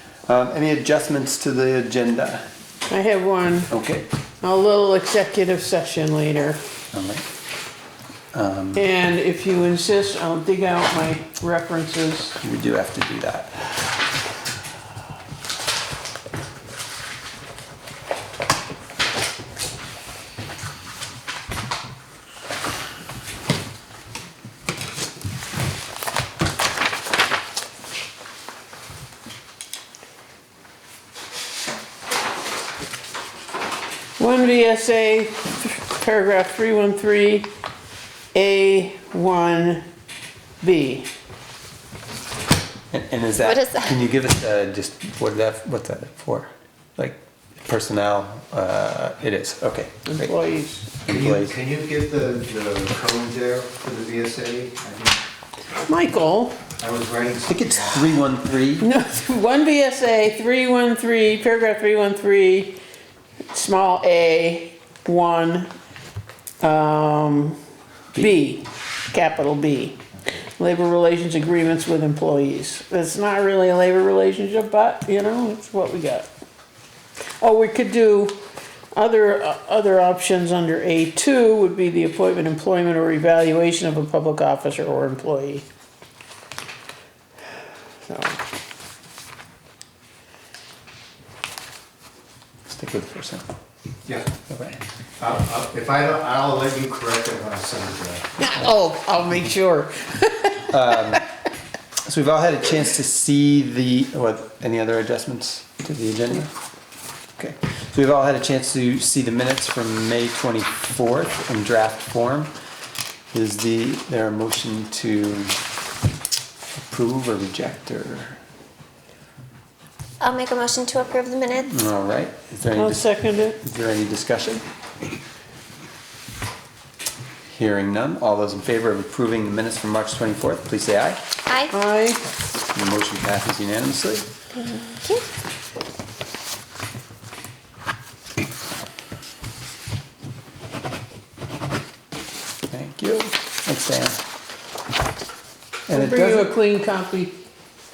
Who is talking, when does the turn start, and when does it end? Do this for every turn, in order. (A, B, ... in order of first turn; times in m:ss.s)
0:00.3-0:02.4 A
0:02.9-0:03.7 B
0:03.7-0:04.1 A
0:04.4-0:06.6 B
0:06.9-0:07.3 A
0:08.3-0:08.8 A
0:08.7-0:12.4 B
0:12.4-0:13.7 A
0:34.2-0:37.5 B
0:38.3-0:39.8 B
0:40.6-0:41.1 B
0:42.9-0:50.3 A
0:43.4-0:43.9 C
0:50.1-0:50.9 B
0:51.0-0:51.6 A
0:51.1-0:55.2 D
0:55.8-0:56.6 B
0:56.8-0:58.2 D
0:57.4-0:58.9 A
0:58.8-1:02.8 B
1:03.5-1:05.7 B
1:06.6-1:07.6 B
1:08.1-1:10.0 B
1:10.6-1:16.3 B
1:17.4-1:18.4 B
1:18.9-1:25.6 B
1:28.0-1:28.4 B
1:32.7-1:33.4 A
1:34.4-1:34.8 A
1:35.2-1:38.3 D
1:38.4-1:41.2 B
1:40.7-1:41.2 A
1:42.0-1:46.5 A
1:47.4-1:52.5 A
1:53.3-1:55.6 A
1:56.7-1:58.4 A
2:00.2-2:01.8 C
2:01.7-2:04.6 A
2:02.7-2:03.6 B
2:07.5-2:11.2 A
2:11.7-2:12.2 B
2:12.7-2:14.3 A
2:22.7-2:24.2 A
2:25.9-2:26.5 A
2:25.9-2:27.4 B